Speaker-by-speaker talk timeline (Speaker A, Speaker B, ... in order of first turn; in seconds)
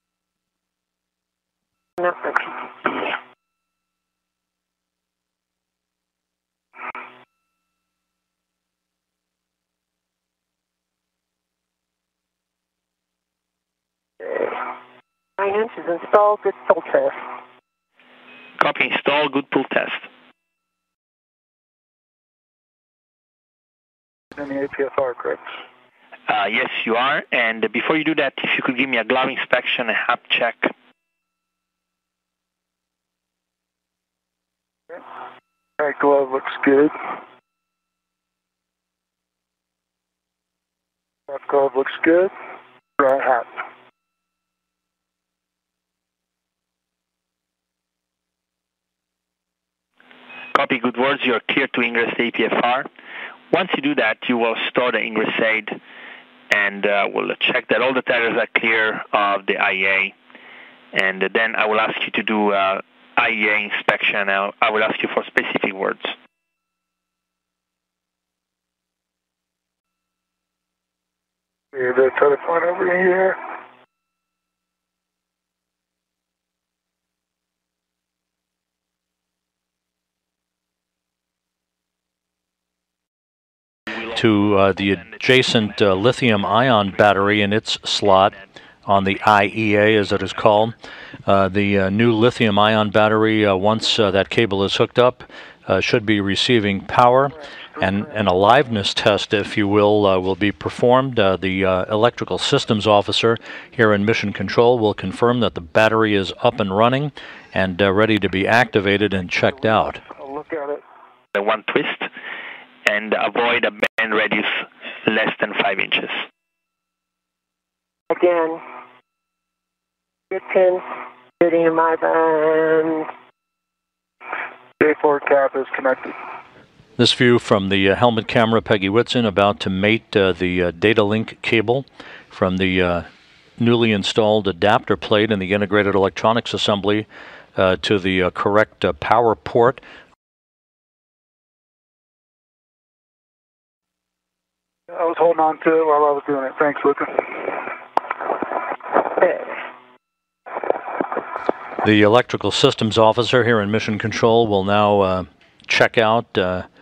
Speaker A: 2.0-3.2, 14.2-14.7, 15.4-17.3, 118.1-118.6, 120.3-120.8, 121.4-123.1, 149.2-149.5
Speaker B: 18.6-20.1, 26.3-30.7, 50.5-52.9, 53.5-55.8, 56.5-60.1, 60.9-66.1, 85.0-85.8, 88.1-88.4, 111.3-112.1, 112.8-116.2
Speaker C: 24.3-25.5, 35.8-36.9, 41.3-42.3, 43.0-43.6, 71.7-73.4, 110.0-110.8, 124.8-126.2, 144.9-147.6
Speaker D: 84.1-88.3, 88.8-90.7, 91.2-110.0, 127.0-133.1, 133.6-139.8, 151.8-156.7